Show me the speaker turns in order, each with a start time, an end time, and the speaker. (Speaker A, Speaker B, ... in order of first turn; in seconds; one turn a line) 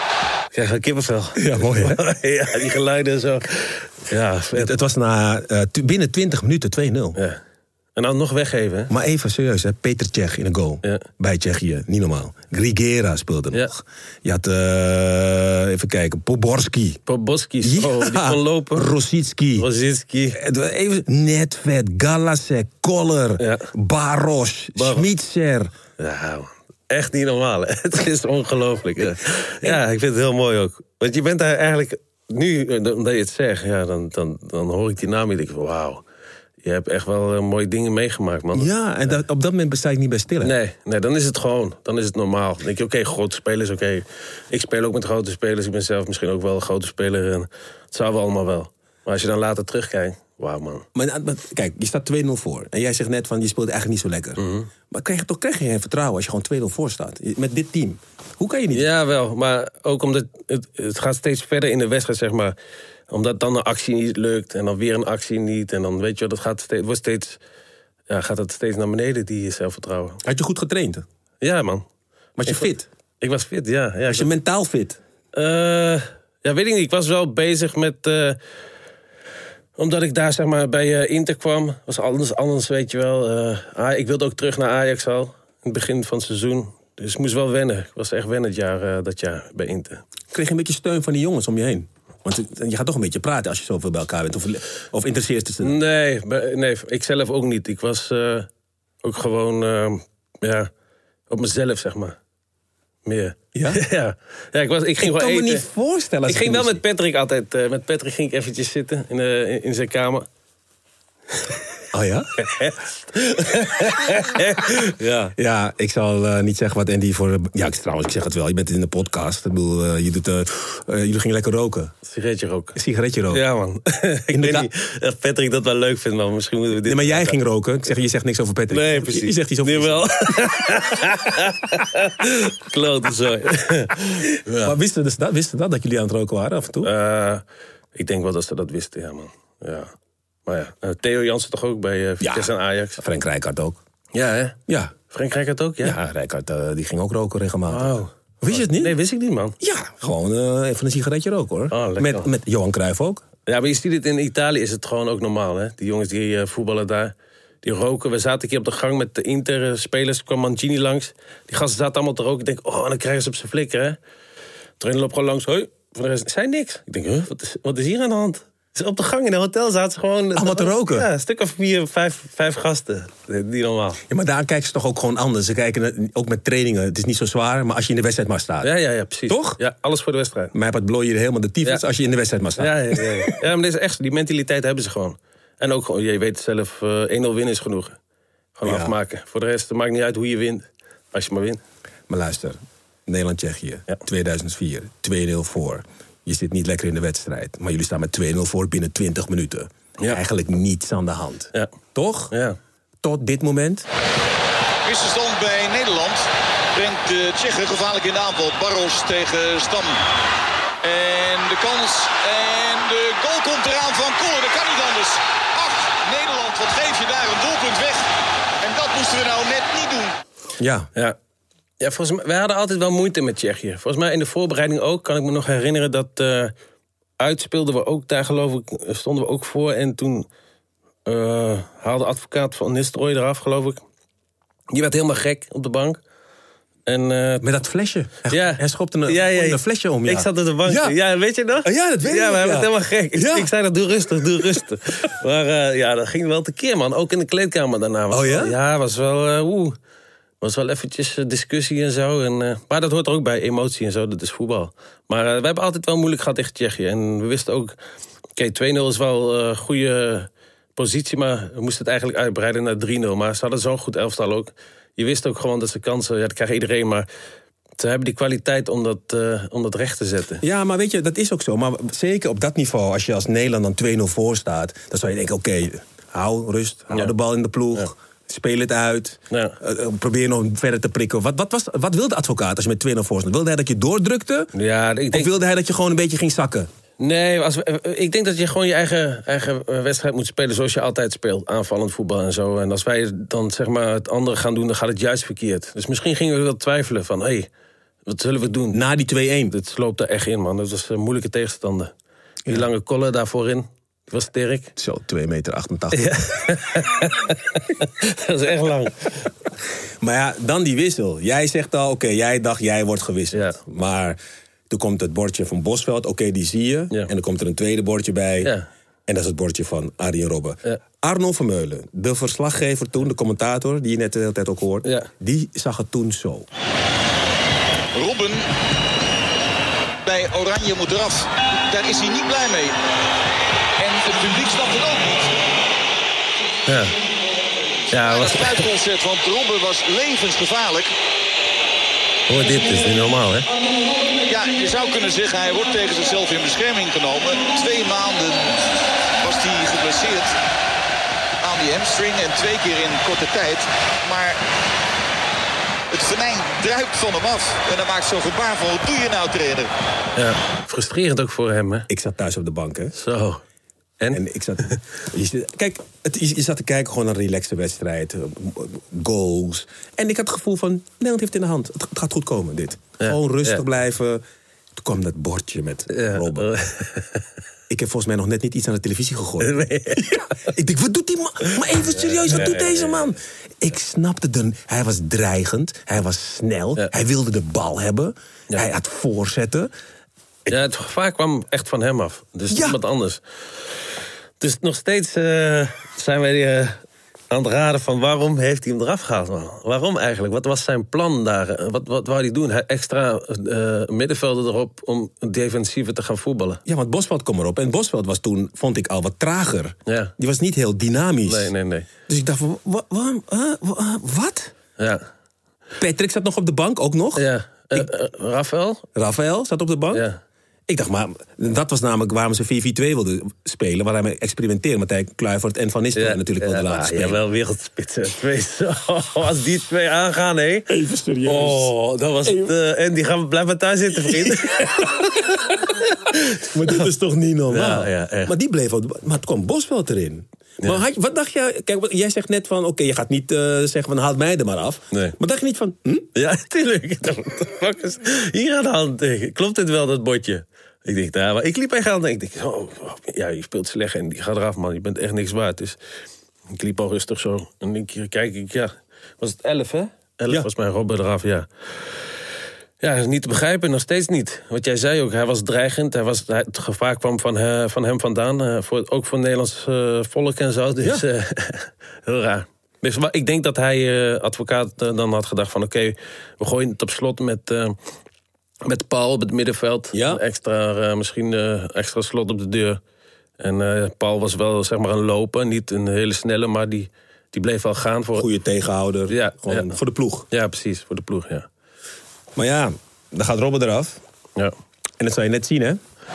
Speaker A: 0.5-4.8
Speaker B: 1.4-2.0
Speaker B: 4.5-7.2
Speaker A: 8.0-8.9
Speaker B: 8.9-17.0
Speaker A: 17.1-18.9
Speaker B: 17.6-19.7
Speaker A: 19.6-20.4
Speaker B: 20.3-25.7
Speaker A: 23.4-23.7
Speaker A: 24.8-25.1
Speaker A: 26.0-36.0
Speaker A: 36.6-39.1
Speaker B: 38.5-40.6
Speaker A: 40.4-50.9
Speaker B: 51.0-58.9
Speaker A: 54.4-54.7
Speaker A: 58.7-62.5
Speaker A: 63.1-67.4
Speaker A: 68.1-70.2
Speaker B: 70.2-71.0
Speaker A: 71.4-71.8
Speaker B: 72.4-72.9
Speaker A: 73.2-74.3
Speaker B: 74.1-75.0
Speaker A: 75.3-78.4
Speaker A: 79.8-90.0
Speaker B: 90.3-95.8
Speaker A: 95.6-98.5
Speaker A: 99.0-100.7
Speaker A: 101.3-102.2
Speaker A: 103.1-105.6
Speaker B: 103.5-103.8
Speaker B: 105.0-106.8
Speaker A: 106.3-110.2
Speaker B: 111.9-112.3
Speaker A: 112.4-115.3
Speaker B: 115.4-121.9
Speaker A: 122.1-122.8
Speaker B: 122.8-123.4
Speaker A: 123.3-127.4
Speaker B: 124.3-124.7
Speaker B: 126.8-130.4
Speaker A: 128.7-134.8
Speaker B: 134.6-136.9
Speaker A: 136.8-137.4
Speaker A: 137.9-139.9
Speaker A: 140.5-143.0
Speaker B: 142.2-143.8
Speaker A: 144.1-144.6
Speaker B: 144.7-144.9
Speaker A: 145.1-146.0
Speaker B: 145.8-149.0
Speaker A: 147.7-149.6
Speaker B: 149.6-153.2
Speaker A: 151.7-152.3
Speaker A: 153.5-164.0
Speaker A: 164.8-174.0
Speaker B: 170.4-171.1
Speaker B: 174.1-178.7
Speaker A: 178.6-180.5
Speaker B: 179.3-179.6
Speaker B: 180.5-183.4
Speaker A: 182.6-188.0
Speaker A: 188.6-191.6
Speaker B: 188.6-188.9
Speaker B: 192.1-202.3
Speaker A: 202.3-202.6
Speaker B: 203.0-203.9
Speaker C: 204.8-210.0
Speaker C: 210.8-218.1
Speaker C: 218.6-220.1
Speaker B: 220.6-220.9
Speaker A: 221.8-226.5
Speaker A: 227.2-230.3
Speaker A: 231.1-233.8
Speaker A: 234.7-236.0
Speaker A: 236.9-237.4
Speaker B: 237.4-241.0
Speaker A: 238.3-249.8
Speaker B: 241.6-243.5
Speaker B: 248.1-248.6
Speaker A: 250.4-257.8
Speaker A: 258.4-267.1
Speaker A: 267.8-270.4
Speaker B: 270.4-284.5
Speaker A: 279.3-279.6
Speaker A: 284.5-285.3
Speaker B: 285.1-286.7
Speaker A: 287.0-297.5
Speaker A: 298.1-298.8
Speaker B: 298.7-299.5
Speaker A: 299.5-301.9
Speaker A: 302.5-304.7
Speaker B: 304.8-306.2
Speaker A: 305.9-309.1
Speaker B: 310.0-314.2
Speaker A: 313.3-313.6
Speaker B: 314.7-318.5
Speaker A: 318.4-318.7
Speaker B: 319.1-326.5
Speaker A: 324.8-325.1
Speaker C: 327.9-328.5
Speaker C: 330.0-332.8
Speaker C: 333.8-335.3
Speaker A: 336.6-336.9
Speaker A: 337.9-338.6
Speaker C: 337.9-340.9
Speaker A: 342.3-343.5
Speaker C: 344.3-348.6
Speaker C: 349.2-350.3
Speaker C: 351.4-354.4
Speaker C: 355.9-359.7
Speaker A: 360.1-361.9
Speaker B: 361.9-362.9
Speaker A: 362.9-363.4
Speaker A: 364.0-364.8
Speaker B: 364.1-374.2
Speaker A: 373.0-373.6
Speaker B: 374.8-376.5
Speaker A: 375.9-377.2
Speaker B: 377.7-389.7
Speaker A: 379.4-380.5
Speaker A: 381.9-383.1
Speaker A: 390.5-393.2
Speaker B: 392.5-392.8
Speaker A: 394.4-396.8
Speaker A: 397.3-406.6
Speaker B: 406.6-411.5
Speaker A: 409.9-410.1
Speaker A: 411.3-411.9
Speaker B: 412.1-414.5
Speaker A: 414.8-415.0
Speaker B: 415.8-417.9
Speaker A: 417.1-418.8
Speaker B: 418.9-420.1
Speaker A: 419.9-420.2
Speaker B: 420.7-427.2
Speaker A: 425.9-430.7
Speaker B: 430.7-432.6
Speaker A: 431.2-436.8
Speaker B: 434.0-435.6
Speaker B: 436.4-446.1
Speaker A: 437.5-438.3
Speaker A: 446.1-455.8
Speaker A: 456.5-461.5
Speaker A: 462.8-477.8
Speaker A: 478.6-482.8
Speaker B: 479.9-480.2
Speaker A: 483.4-488.3
Speaker B: 488.1-490.3
Speaker A: 489.1-489.8
Speaker A: 490.3-491.5
Speaker B: 492.4-494.0
Speaker B: 495.0-495.8